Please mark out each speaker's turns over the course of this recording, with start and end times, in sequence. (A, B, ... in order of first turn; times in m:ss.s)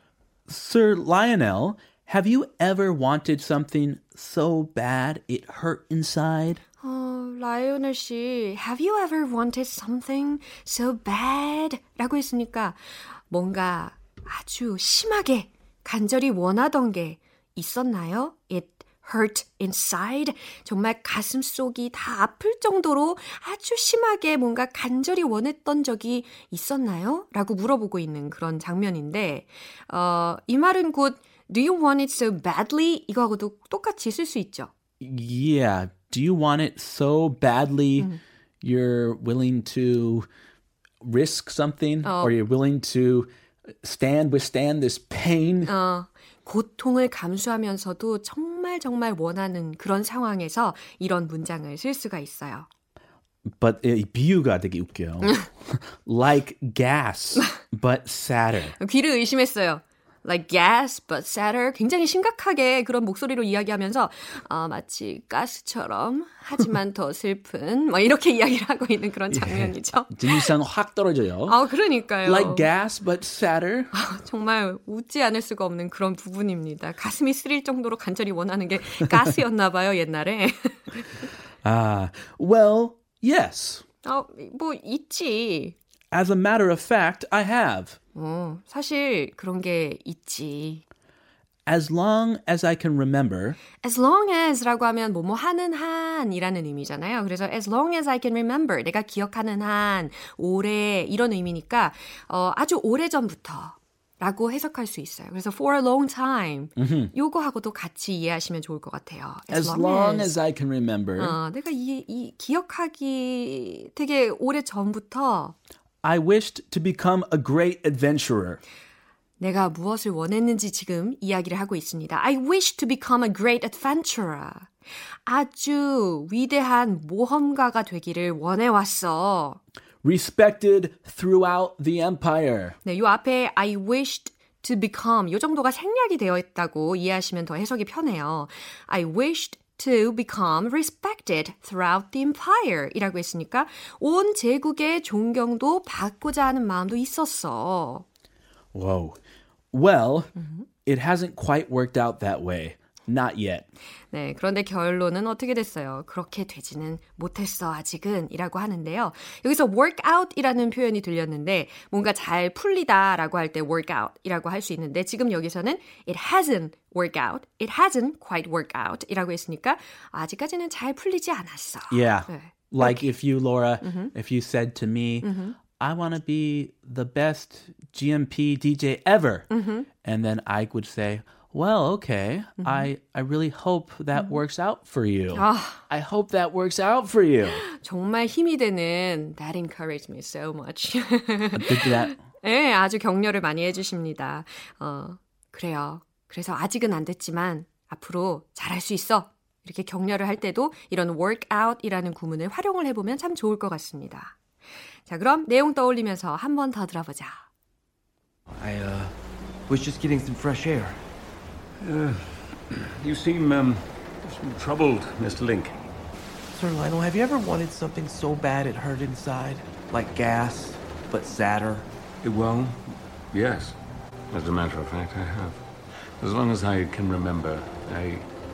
0:00.5-0:06.6 A
0:06.8-0:34.7 B
0:35.0-0:38.1 A
0:38.6-0:40.3 A
0:41.0-0:45.7 A
0:42.0-0:42.4 B
0:45.6-0:52.7 B
0:53.5-0:58.8 A
0:58.8-1:10.5 B
1:09.3-1:11.6 A
1:11.5-1:12.7 B
1:12.2-1:13.9 A
1:13.9-1:21.3 B
1:21.6-1:23.8 A
1:24.0-1:25.7 B
1:26.1-1:28.0 A
1:28.1-1:30.8 B
1:31.6-1:33.6 A
1:33.8-1:50.3 B
1:46.8-1:47.1 A
1:49.5-1:51.4 A
1:51.2-1:55.5 B
1:56.0-1:58.6 A
1:59.4-2:04.7 B
2:05.2-2:09.6 B
2:10.0-2:12.8 A
2:12.8-2:28.0 B
2:28.7-2:29.2 A
2:29.7-2:30.3 A
2:30.4-2:30.6 B
2:30.8-2:33.6 A
2:34.1-2:53.1 B
2:51.9-3:07.6 A
2:53.8-2:54.1 B
2:55.2-2:55.6 B
2:59.5-2:59.9 B
3:02.6-3:02.9 B
3:04.1-3:04.4 B
3:05.3-3:05.8 B
3:07.5-3:24.4 B
3:11.5-3:12.2 A
3:25.1-3:27.4 B
3:28.5-3:29.2 C
3:29.7-3:31.0 C
3:31.8-3:35.8 D
3:36.5-3:41.9 C
3:42.2-3:43.8 D
3:44.3-3:48.3 D